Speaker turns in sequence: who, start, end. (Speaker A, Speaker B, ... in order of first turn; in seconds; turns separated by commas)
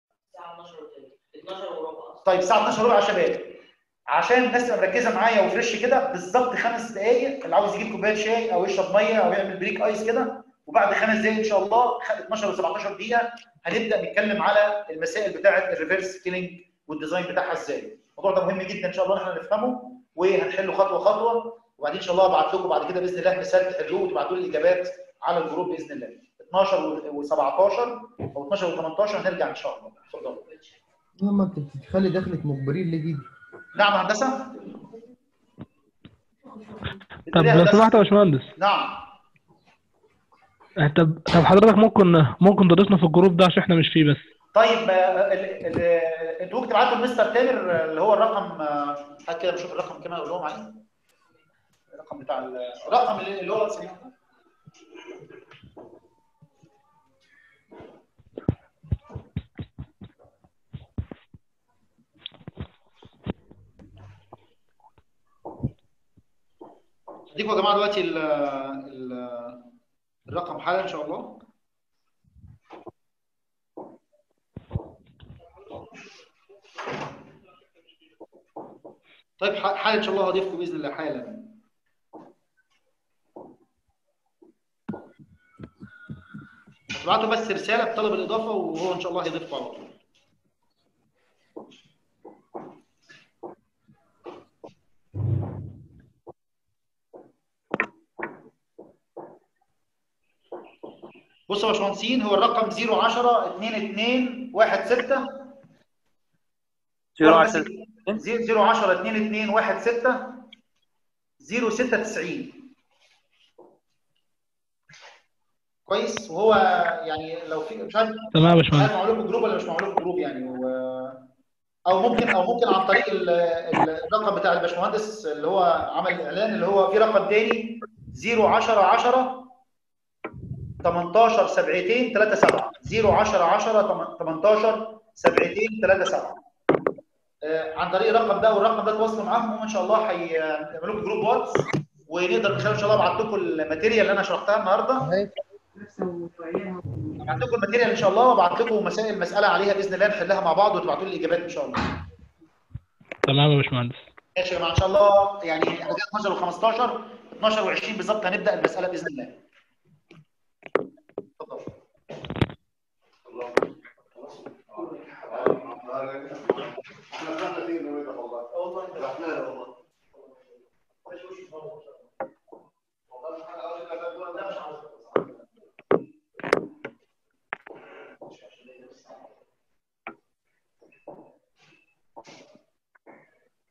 Speaker A: 0.3-2.2, Speaker B: 2.2-30.5, Speaker C: 31.2-33.3, Speaker B: 33.8-34.7, Speaker B: 37.3-39.1, Speaker D: 37.3-38.5, Speaker D: 40.8-44.2, Speaker B: 44.5-50.8, Speaker B: 51.9-54.1, Speaker B: 67.3-69.7, Speaker B: 70.3-71.4, Speaker B: 79.4-81.5, Speaker B: 86.9-89.9, Speaker B: 101.5-105.5, Speaker A: 107.2-108.2, Speaker B: 107.2-110.4, Speaker B: 111.4-112.7, Speaker B: 115.9-121.2, Speaker D: 118.3-118.9, Speaker B: 121.9-129.5, Speaker B: 130.8-136.4, Speaker B: 137.4-145.1, Speaker B: 147.2-151.9, Speaker D: 153.2-154.0, Speaker B: 154.4-159.4, Speaker B: 161.4-161.7, Speaker C: 163.3-163.6, Speaker C: 164.2-169.7, Speaker B: 168.6-169.3, Speaker B: 171.1-171.8, Speaker B: 173.2-175.2, Speaker B: 178.3-179.1